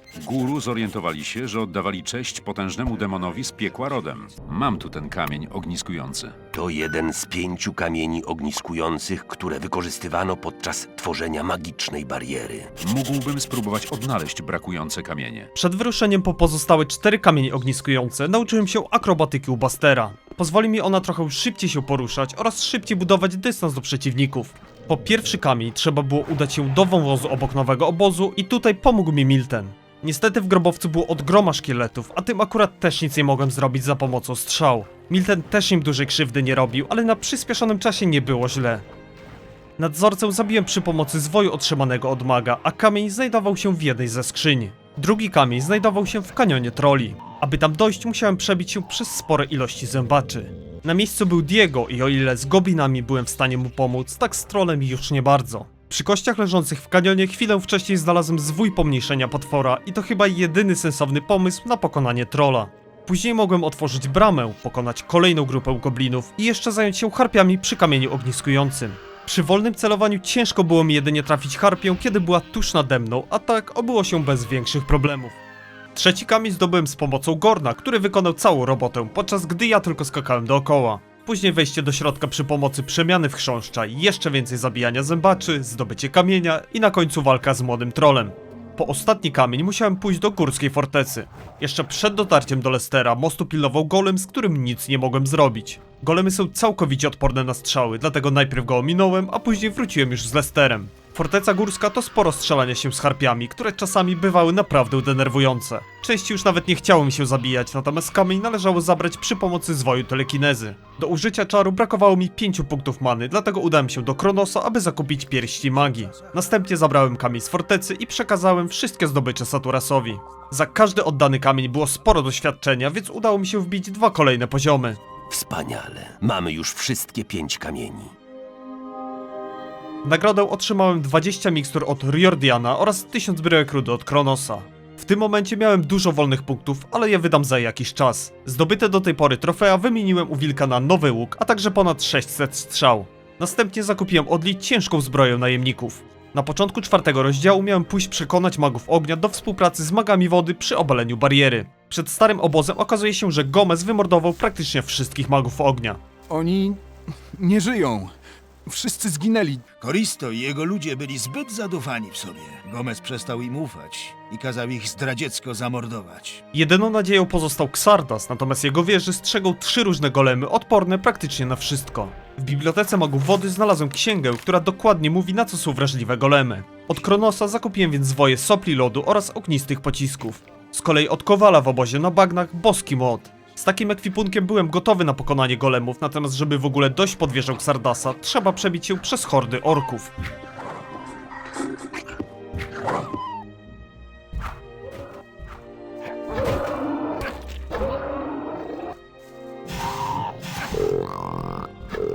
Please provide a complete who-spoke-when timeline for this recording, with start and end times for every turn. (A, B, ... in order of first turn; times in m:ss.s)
0:00.1-0:06.4 A
0:06.5-0:12.7 B
0:12.8-0:15.5 A
0:15.5-0:38.8 C
0:39.8-1:15.4 C
1:15.9-2:05.0 C
2:05.3-2:08.1 B
2:10.0-2:36.0 C
2:36.3-2:36.8 D
2:37.4-2:38.1 D
2:38.6-2:39.6 D
2:39.8-2:46.4 E
2:46.5-3:10.1 C